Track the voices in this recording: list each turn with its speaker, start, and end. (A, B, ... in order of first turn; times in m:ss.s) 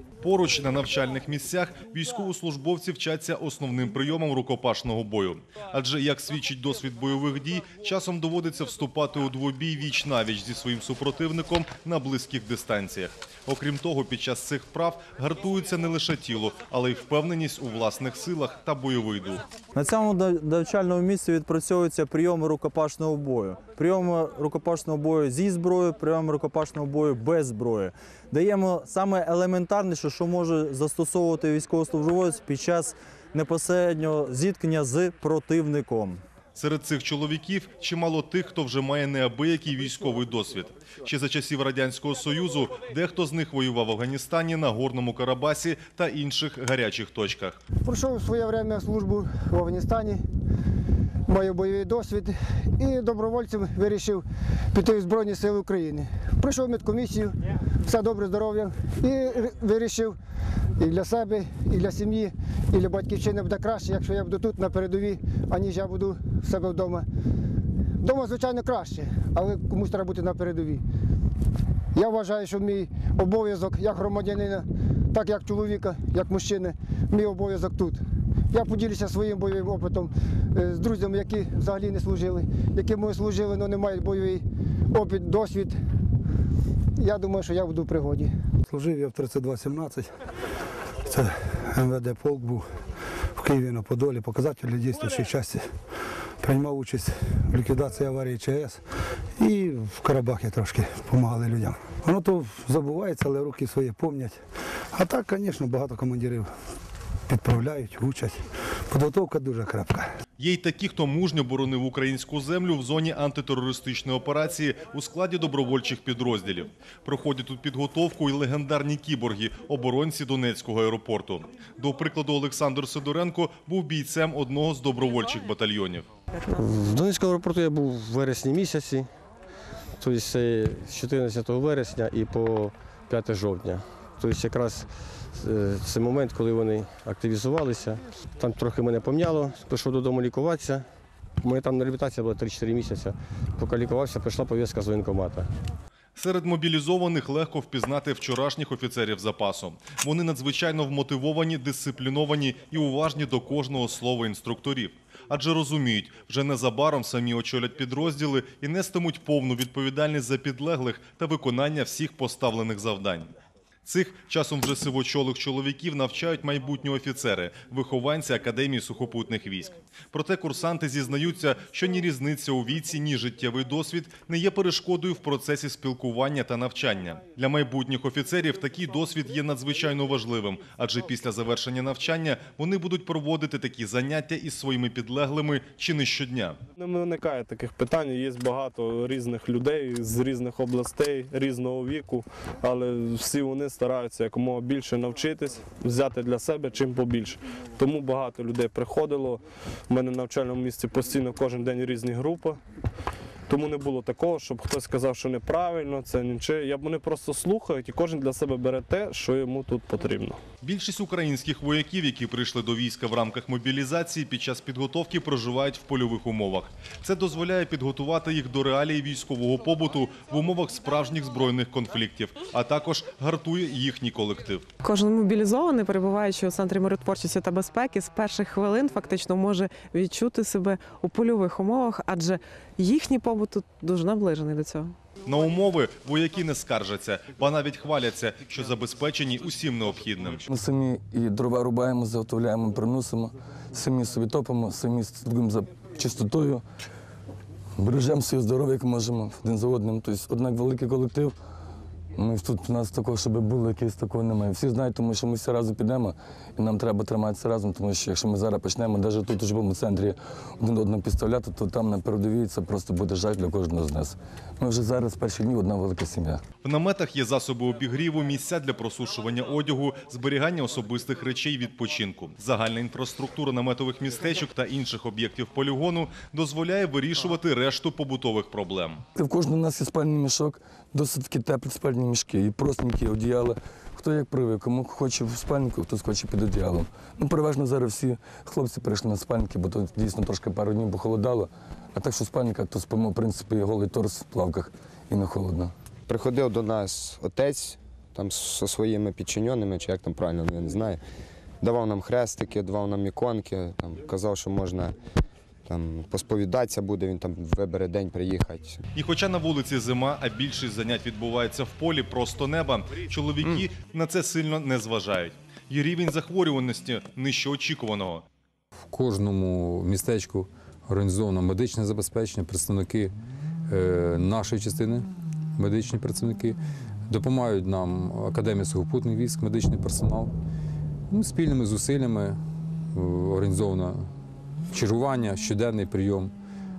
0:00.2-0:19.4 A
0:19.7-0:36.2 B
0:36.6-0:47.6 A
0:47.8-0:50.2 C
0:51.2-1:00.2 C
1:00.8-1:07.1 C
1:08.0-1:10.8 C
1:11.9-1:25.8 C
1:27.0-1:28.3 C
1:28.7-1:30.1 D
1:31.1-1:32.6 D
1:33.4-1:35.6 D
1:36.4-1:38.8 D
1:39.4-1:44.4 D
1:44.9-1:46.5 D
1:47.3-1:50.1 D
1:50.4-2:06.1 A
2:06.8-2:09.0 E
2:10.0-2:14.9 E
2:15.4-2:20.8 E
2:21.4-2:25.4 E
2:26.2-2:43.3 A
2:43.8-3:06.6 A
3:06.8-3:22.6 F
3:23.5-3:30.4 F
3:30.6-3:44.6 A
3:44.8-3:54.9 G
3:55.2-4:00.4 A
4:00.5-4:06.6 H
4:07.8-4:11.4 H
4:12.2-4:26.4 H
4:26.6-4:39.0 A
4:39.2-4:55.7 H
4:56.1-5:01.0 I
5:01.6-5:04.9 I
5:05.7-5:08.8 I
5:08.9-5:18.2 A
5:18.9-5:23.1 J
5:23.7-5:30.3 J
5:31.1-5:32.4 J
5:32.9-5:34.1 J
5:34.7-5:36.3 J